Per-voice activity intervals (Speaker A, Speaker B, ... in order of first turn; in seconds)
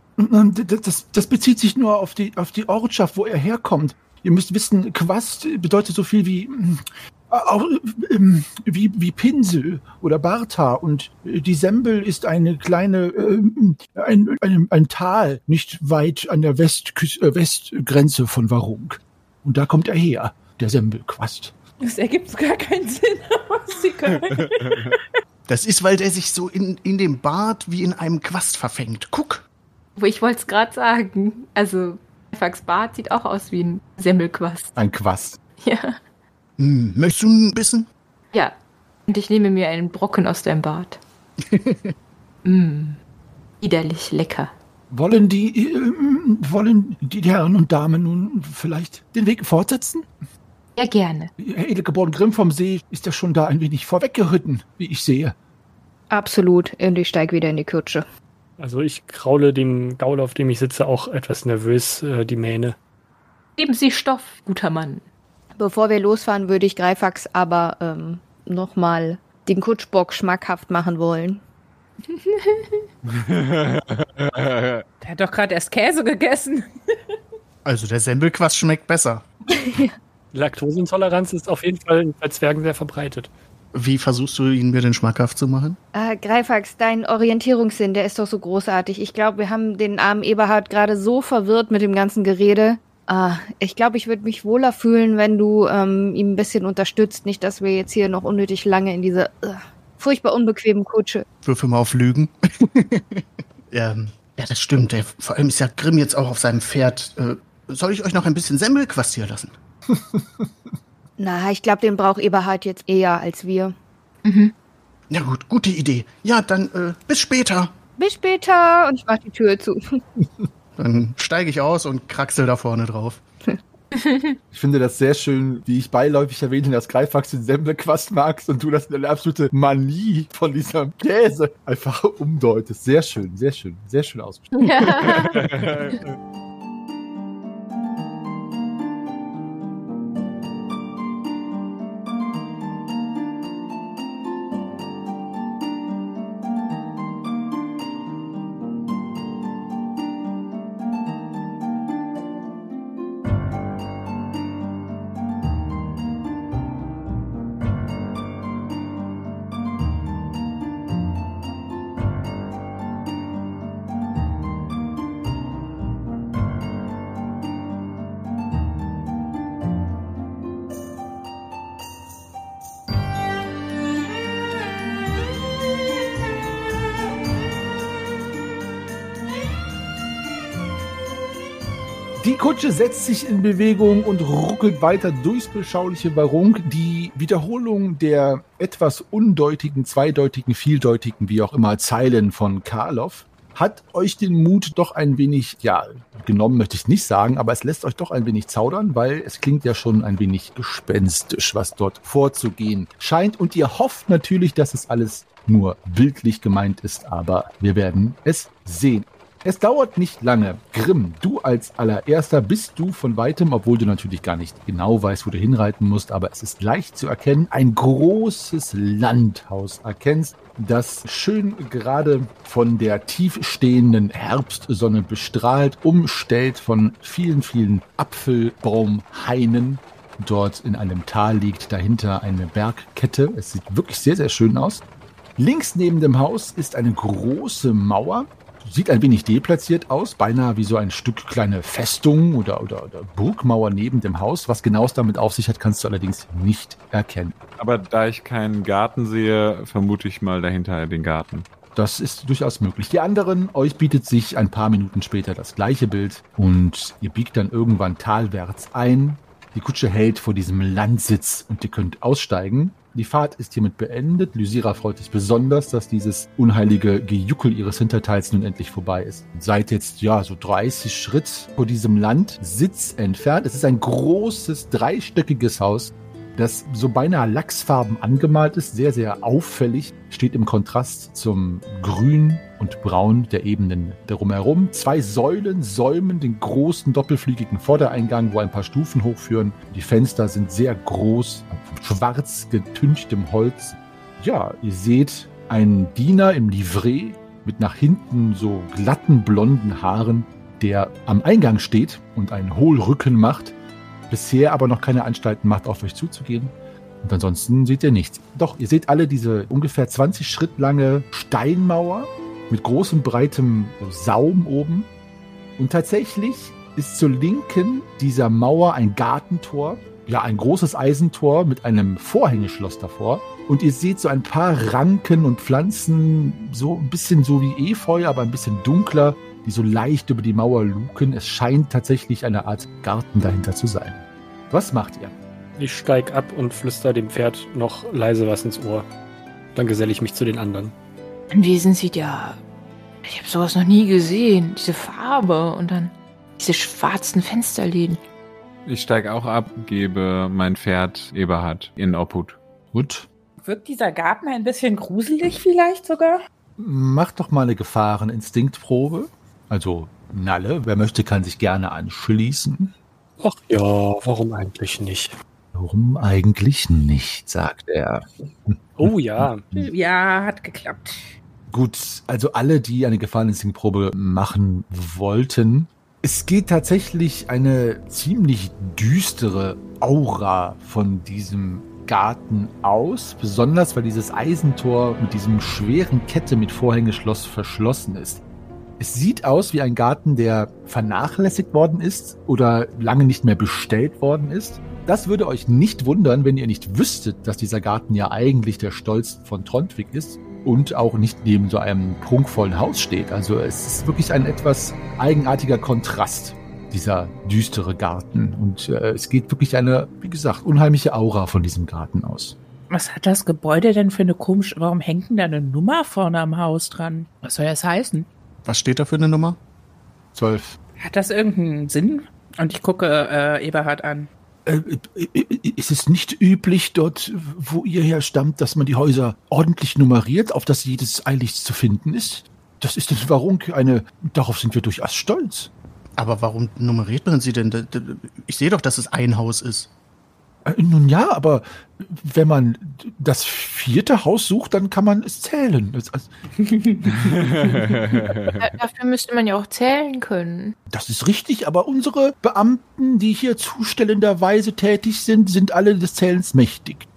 Speaker A: 0.2-21.5, 34.8-35.4, 44.9-50.1, 51.4-55.3, 124.5-135.7, 182.2-234.8, 235.4-247.4, 251.7-303.5, 304.1-314.9, 315.6-335.1, 352.7-353.1, 356.6-362.7, 365.5-369.7, 371.5-388.2, 388.8-412.4, 420.1-420.6, 424.4-435.5, 440.4-446.1, 450.7-456.9
Speaker B: 21.8-25.1, 75.0-77.2, 353.4-356.2, 369.5-371.1, 412.7-418.1, 420.8-424.1, 446.4-448.0
Speaker C: 25.5-29.4, 36.6-37.9, 41.4-41.9, 77.6-79.3, 83.7-85.8, 101.4-109.5, 115.1-117.7, 120.8-123.2, 418.4-419.4, 436.0-439.7
Speaker D: 30.0-34.8, 35.6-36.0, 39.1-41.0, 42.4-43.0, 43.6-44.5, 50.8-51.3, 63.6-65.0, 72.1-72.8, 114.2-114.5, 124.0-124.4, 134.6-135.4, 341.3-342.4, 343.0-348.0, 448.3-450.6
Speaker E: 56.1-58.0, 65.5-71.4, 79.6-79.9, 85.9-101.2, 111.2-113.7, 118.0-120.0
Speaker F: 58.6-62.8, 80.3-83.3, 335.6-338.9, 339.5-340.7, 363.2-365.1, 368.8-369.5
Speaker G: 73.0-74.8, 135.3-136.0, 247.6-251.5, 348.6-352.4, 447.1-448.3